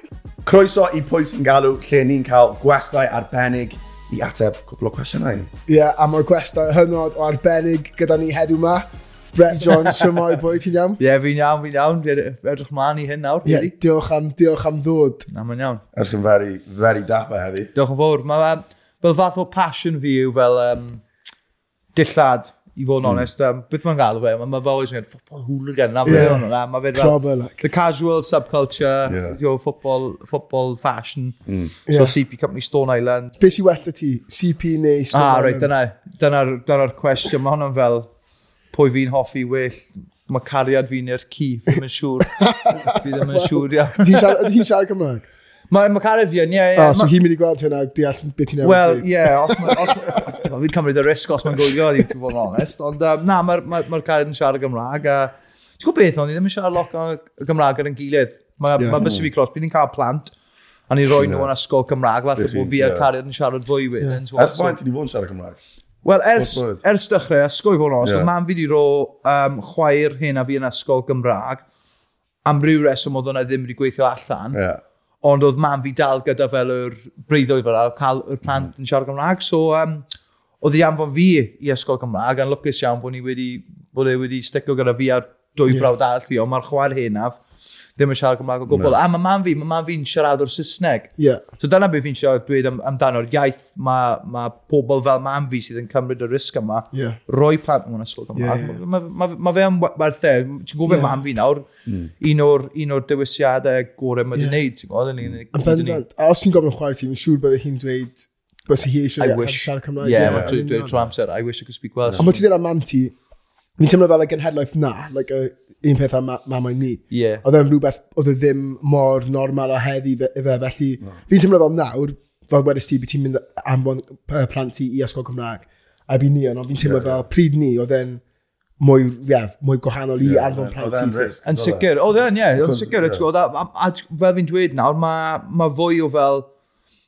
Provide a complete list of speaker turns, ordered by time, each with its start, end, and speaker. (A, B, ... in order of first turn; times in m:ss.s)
0:00.4-0:05.5 A
0:05.7-0:11.0 B
0:09.6-0:09.9 C
0:11.0-0:13.7 C
0:13.4-0:15.3 B
0:15.3-0:15.8 C
0:15.9-0:17.7 A
0:17.7-0:21.0 C
0:21.9-0:33.4 C
0:23.0-0:23.3 A
0:26.0-0:27.6 B
0:29.0-0:29.4 A
0:31.5-0:31.7 A
0:31.9-0:32.1 B
0:33.4-0:35.7 B
0:35.1-0:38.1 C
0:38.7-0:44.4 C
0:42.4-0:45.2 B
0:45.7-0:47.1 C
0:46.7-0:50.2 B
0:48.6-1:00.3 C
0:58.8-0:59.1 B
0:59.0-0:59.3 A
1:00.9-1:04.8 C
1:01.2-1:01.5 A
1:02.4-1:03.1 A
1:04.3-1:05.6 A
1:06.0-1:11.6 C
1:06.4-1:06.8 A
1:08.0-1:08.3 A
1:12.4-1:14.6 C
1:14.5-1:14.8 A
1:15.2-1:20.0 C
1:20.6-1:27.4 C
1:28.0-1:41.7 C
1:28.7-1:29.0 A
1:31.2-1:31.4 B
1:36.9-1:37.2 B
1:38.3-1:38.8 B
1:40.8-1:41.2 B
1:41.9-1:42.1 A
1:42.2-1:46.0 C
1:45.5-1:50.9 B
1:49.2-1:52.3 C
1:50.2-1:51.1 A
1:52.0-1:52.3 A
1:52.2-1:53.2 B
1:53.8-2:08.2 B
1:57.1-1:57.4 C
2:06.8-2:07.2 A
2:08.8-2:11.4 B
2:10.2-2:13.2 A
2:11.4-2:16.5 C